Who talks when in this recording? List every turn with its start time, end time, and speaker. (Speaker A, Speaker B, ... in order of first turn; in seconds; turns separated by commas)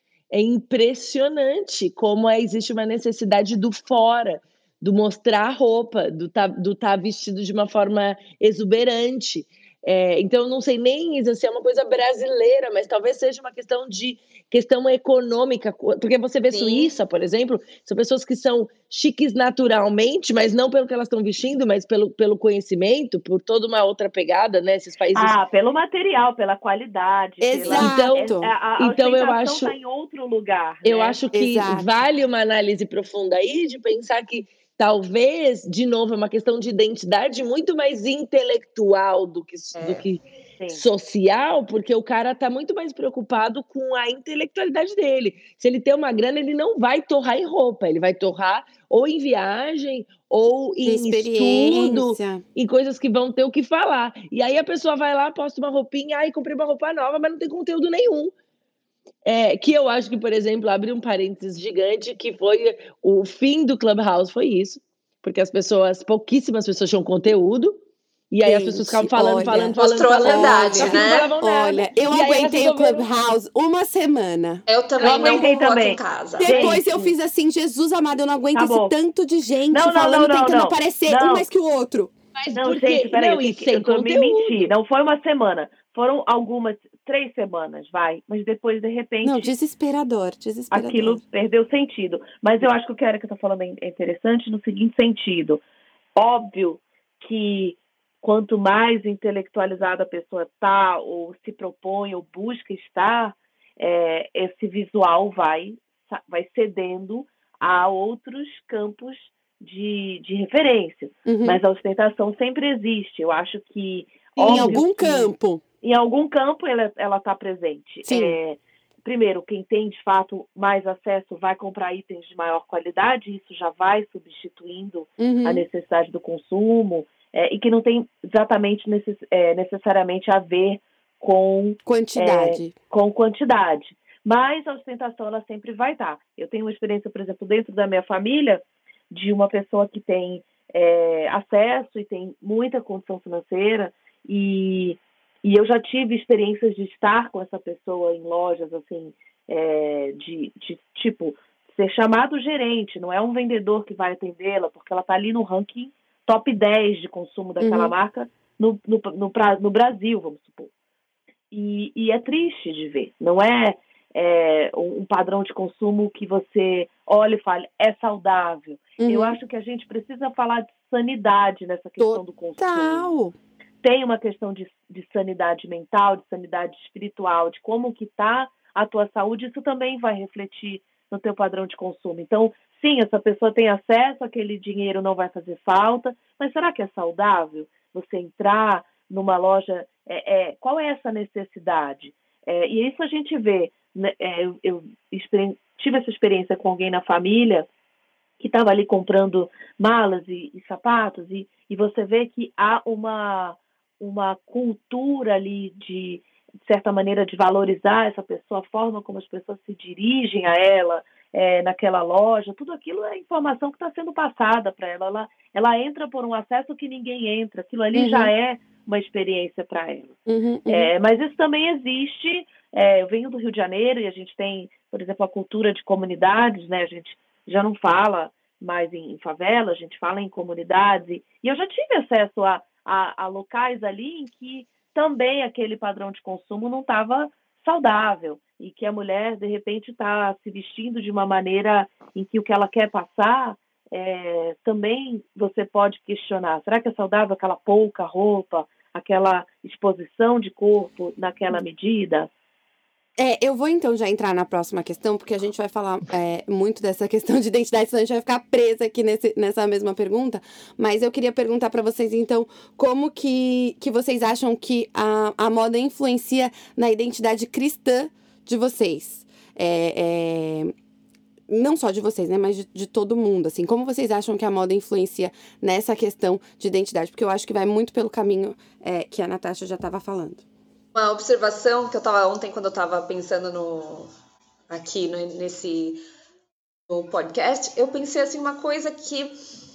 Speaker A: 0.3-25.3, Speaker B: 16.5-16.9, Speaker C: 25.1-31.2, Speaker D: 27.4-28.5, Speaker A: 27.6-28.2, Speaker A: 28.8-29.7, Speaker A: 30.8-58.3, Speaker D: 31.3-31.9, Speaker B: 39.8-40.1, Speaker D: 50.8-52.4, Speaker A: 59.2-67.8, Speaker A: 68.3-73.0, Speaker D: 68.4-74.6, Speaker B: 69.8-71.3, Speaker B: 74.7-77.1, Speaker C: 75.0-76.8, Speaker D: 76.4-82.1, Speaker C: 78.5-78.9, Speaker C: 79.7-81.5, Speaker A: 82.3-84.7, Speaker C: 82.5-89.5, Speaker D: 89.2-91.2, Speaker C: 90.7-95.6, Speaker C: 96.2-160.7, Speaker D: 111.2-111.6, Speaker A: 114.4-114.8, Speaker D: 114.5-115.6, Speaker D: 118.0-118.3, Speaker D: 125.2-125.6, Speaker D: 131.8-132.7, Speaker D: 157.6-157.9, Speaker C: 161.5-173.1, Speaker D: 169.0-169.4, Speaker D: 172.0-173.3, Speaker C: 173.8-197.7, Speaker C: 198.4-220.2, Speaker D: 217.9-218.3, Speaker D: 220.3-220.9, Speaker C: 220.7-252.3, Speaker D: 253.2-270.7, Speaker D: 271.5-280.4, Speaker B: 280.9-284.1, Speaker B: 284.7-286.0, Speaker B: 286.9-289.3